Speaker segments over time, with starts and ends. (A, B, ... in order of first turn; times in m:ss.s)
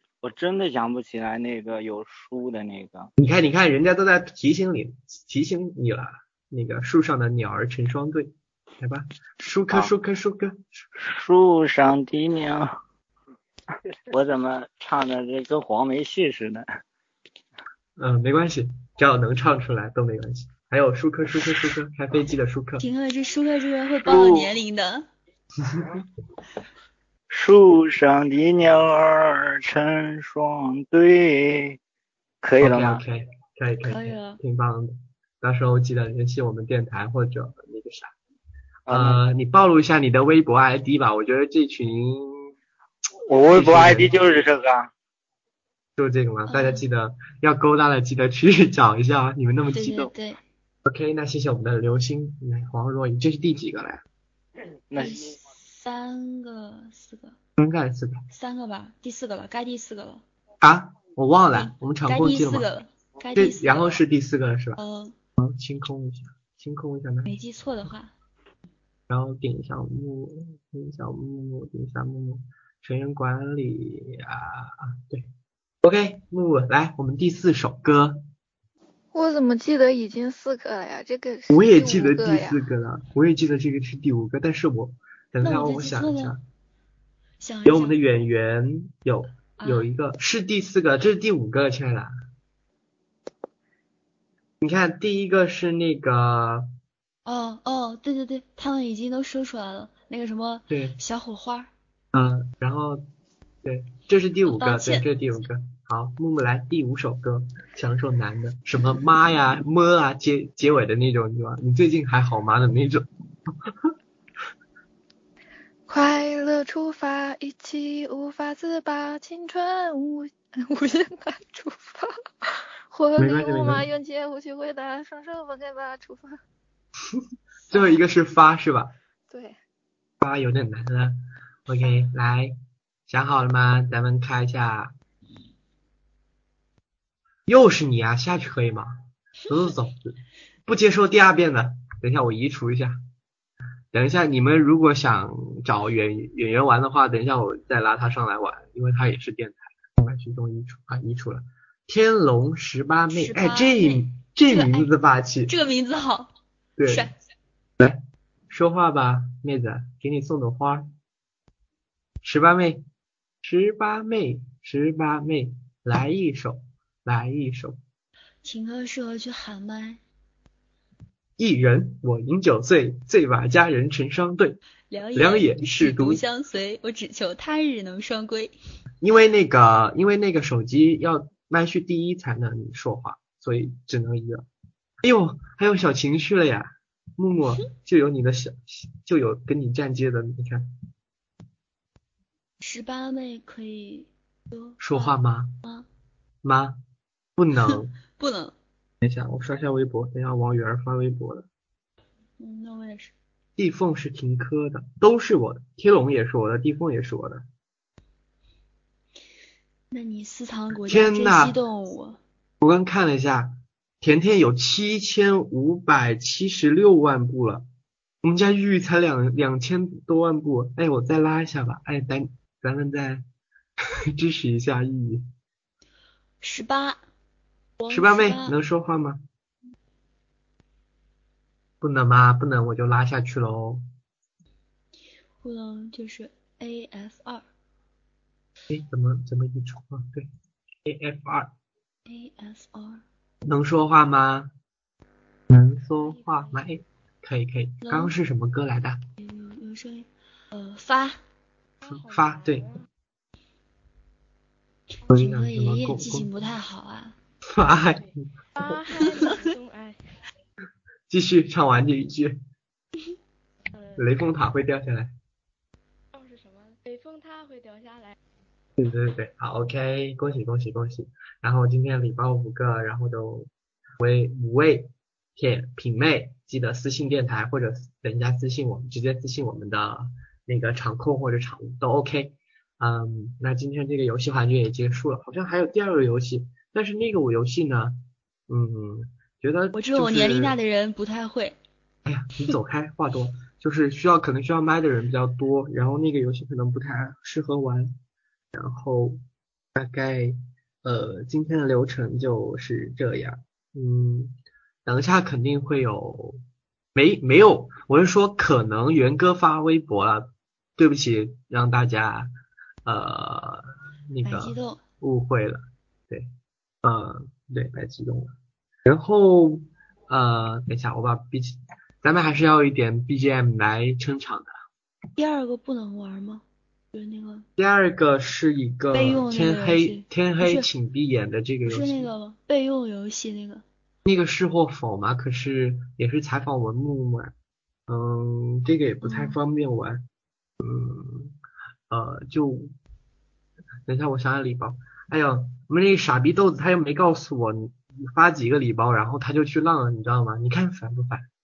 0:00.2-0:03.1 A
0:03.2-0:10.8 B
0:11.0-0:12.7 A
0:14.1-0:16.6 A
0:18.0-0:22.9 B
0:22.8-0:25.1 C
0:24.0-0:24.6 A
0:25.6-0:26.0 B
0:27.3-0:31.8 A
0:32.4-0:33.0 A
0:32.6-0:38.1 B
0:33.8-0:34.4 C
0:38.9-0:39.2 A
0:38.9-0:42.5 B
0:43.3-0:44.9 A
0:43.5-0:44.1 B
0:46.0-0:50.1 B
0:46.5-0:46.8 C
0:49.7-0:50.4 C
0:50.8-0:54.0 B
0:54.9-0:55.4 A
0:55.0-0:57.4 C
0:57.6-0:58.2 B
0:58.3-1:00.2 C
1:00.6-1:02.7 B
1:01.5-1:04.0 C
1:03.3-1:04.8 B
1:04.8-1:05.2 C
1:05.4-1:07.3 B
1:07.2-1:08.1 C
1:09.1-1:15.3 B
1:15.8-1:18.2 B
1:19.1-1:22.6 D
1:21.5-1:26.4 B
1:25.4-1:26.4 C
1:27.4-1:28.0 C
1:27.6-1:32.1 B
1:29.6-1:29.9 C
1:34.6-1:36.7 B
1:37.2-1:41.7 C
1:40.7-1:41.0 B
1:42.1-1:43.0 B
1:43.6-1:53.9 B
1:44.4-1:45.1 C
1:55.9-2:06.4 D
2:03.2-2:03.9 B
2:07.7-2:08.9 B
2:09.3-2:09.6 D
2:10.2-2:12.6 B
2:13.1-2:14.9 B
2:17.5-2:23.0 B
2:23.9-2:35.5 B
2:33.1-2:34.9 C
2:35.5-2:36.3 C
2:36.8-2:37.1 B
2:36.8-2:37.1 C
2:37.8-2:40.9 B
2:42.2-2:42.8 B
2:43.4-2:47.8 B
2:48.4-2:50.0 C
2:51.4-2:54.6 B
2:54.9-2:58.5 C
2:55.1-2:56.2 B
2:59.0-3:04.5 B
3:05.0-3:10.7 B
3:12.6-3:15.9 C
3:14.8-3:15.6 B
3:16.4-3:16.8 B
3:17.4-3:17.9 B
3:17.7-3:18.5 C
3:19.0-3:21.5 B
3:22.4-3:23.1 C
3:23.6-3:27.4 B
3:29.9-3:32.2 C
3:30.7-3:31.6 B
3:32.6-3:37.7 B
3:38.2-3:43.2 B
3:44.1-3:45.3 B
3:46.4-3:47.0 C
3:47.8-3:48.6 C
3:47.9-3:49.2 B
3:51.8-3:53.8 B
3:55.4-3:57.4 C
3:58.7-4:00.3 B
4:00.8-4:01.5 B
4:02.1-4:03.0 C
4:03.4-4:04.5 B
4:05.5-4:09.0 B
4:06.1-4:06.5 E
4:07.8-4:08.1 C
4:09.2-4:11.2 C
4:11.8-4:12.7 E
4:11.8-4:12.7 B
4:15.1-4:17.2 C
4:15.1-4:16.5 B
4:17.4-4:18.2 B
4:18.6-4:20.0 E
4:21.1-4:22.4 B
4:24.0-4:25.1 B
4:26.1-4:28.1 E
4:28.8-4:50.6 B
4:49.7-4:51.6 C
4:52.0-4:58.0 B
4:58.5-4:59.2 B
4:59.7-5:06.4 B
5:06.9-5:12.3 B
5:12.8-5:16.3 B
5:14.2-5:14.8 C
5:16.8-5:24.5 B
5:25.2-5:27.5 C
5:27.6-5:32.1 B
5:28.9-5:30.7 C
5:31.6-5:33.6 C
5:34.0-5:37.3 B
5:37.9-5:40.0 B
5:39.0-5:39.4 C
5:40.6-5:41.4 B
5:41.9-5:42.7 B
5:43.8-5:51.3 B